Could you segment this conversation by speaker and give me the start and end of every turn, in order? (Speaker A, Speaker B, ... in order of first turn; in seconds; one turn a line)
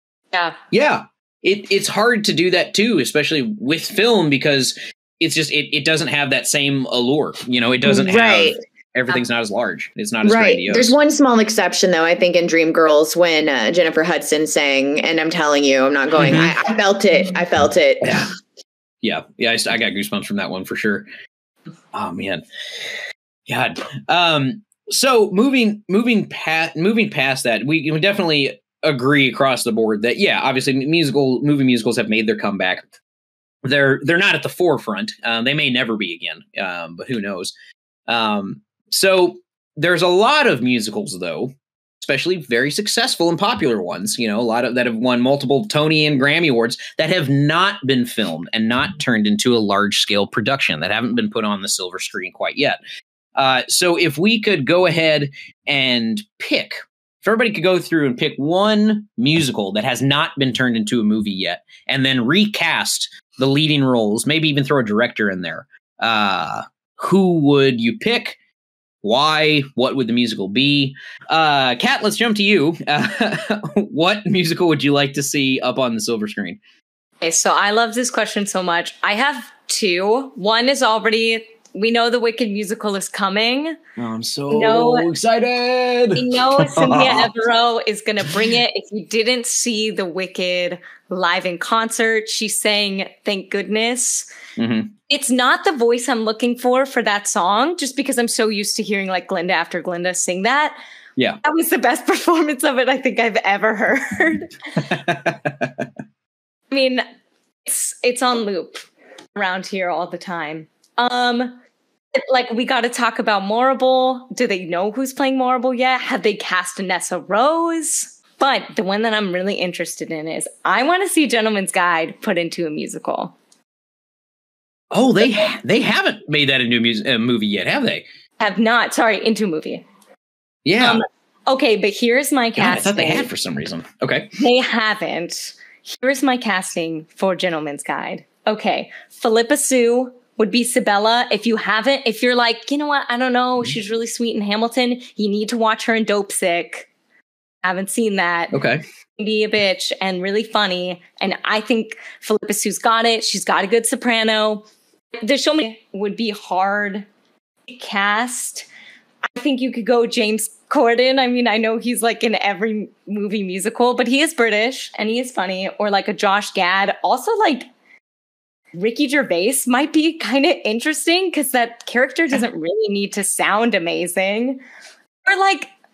Speaker A: 0.7-10.9
Speaker B: 7.8-8.6
Speaker B: 10.2-18.2
Speaker A: 16.1-16.6
Speaker A: 18.0-18.3
Speaker A: 19.0-21.1
Speaker A: 21.9-22.9
Speaker A: 23.5-32.9
Speaker A: 33.6-37.5
Speaker A: 38.1-52.8
Speaker A: 53.4-68.4
Speaker A: 69.0-76.6
Speaker C: 77.2-83.8
Speaker A: 84.0-87.4
Speaker C: 84.5-85.1
Speaker C: 86.2-94.3
Speaker A: 94.6-94.9
Speaker C: 95.1-100.8
Speaker C: 101.4-104.5
Speaker A: 104.8-105.9
Speaker C: 106.7-107.0
Speaker C: 107.7-111.5
Speaker C: 112.2-123.3
Speaker A: 124.9-128.0
Speaker C: 128.4-129.8
Speaker A: 130.6-131.0
Speaker C: 130.8-133.3
Speaker A: 132.6-134.3
Speaker C: 134.4-146.9
Speaker C: 147.6-148.6
Speaker A: 148.5-148.8
Speaker C: 149.2-154.7
Speaker C: 155.2-157.1
Speaker C: 157.7-158.7
Speaker C: 159.3-167.7
Speaker C: 168.7-174.6
Speaker C: 175.2-175.7